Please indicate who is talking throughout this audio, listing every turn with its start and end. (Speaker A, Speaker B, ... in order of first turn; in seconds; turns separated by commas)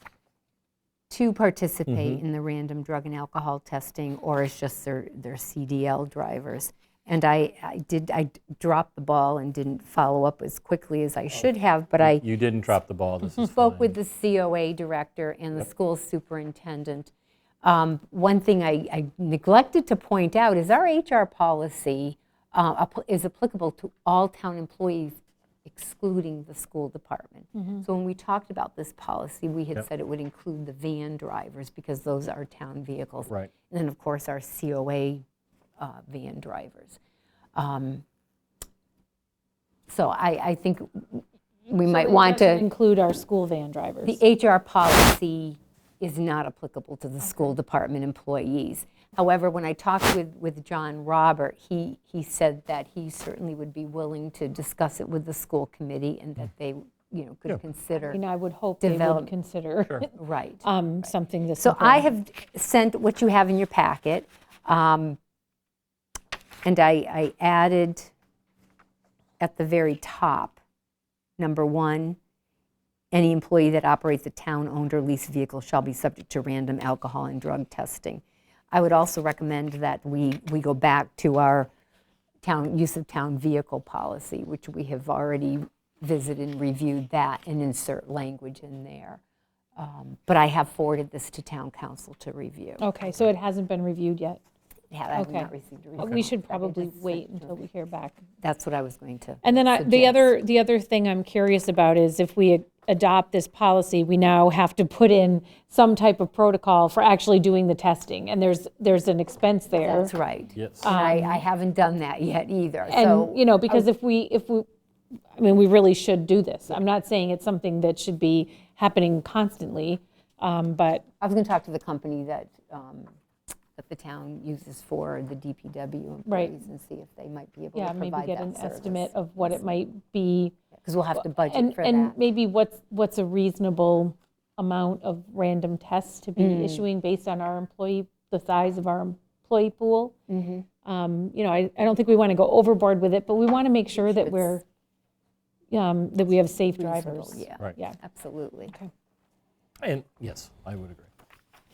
Speaker A: 1.1-12.2, Speaker B: 1.9-2.2, Speaker B: 12.0-13.9, Speaker A: 13.4-17.1, Speaker A: 17.6-35.2, Speaker C: 27.5-27.8, Speaker A: 35.8-37.0, Speaker A: 37.5-38.0, Speaker A: 39.9-42.7, Speaker C: 41.8-44.2, Speaker A: 44.0-58.2, Speaker C: 58.1-62.1, Speaker A: 58.8-59.3, Speaker A: 60.1-61.1, Speaker A: 61.6-65.2, Speaker A: 66.6-68.1, Speaker A: 69.4-70.6, Speaker A: 71.4-72.2, Speaker A: 73.1-81.7, Speaker A: 82.4-89.2, Speaker A: 89.8-92.9, Speaker C: 92.8-94.4, Speaker A: 94.9-97.6, Speaker C: 95.1-98.2, Speaker A: 98.4-100.3, Speaker C: 99.4-110.1, Speaker A: 109.8-113.9, Speaker B: 110.5-110.9, Speaker C: 110.8-111.4, Speaker C: 112.9-114.7, Speaker C: 115.3-121.0, Speaker A: 121.2-123.1, Speaker A: 123.8-129.6, Speaker C: 126.2-126.6, Speaker C: 127.7-130.6, Speaker A: 130.8-132.2, Speaker C: 131.2-140.1, Speaker A: 136.4-136.8, Speaker A: 140.3-140.7, Speaker C: 140.8-144.6, Speaker A: 143.9-144.6, Speaker C: 145.7-148.0, Speaker A: 146.8-148.7, Speaker B: 149.8-151.1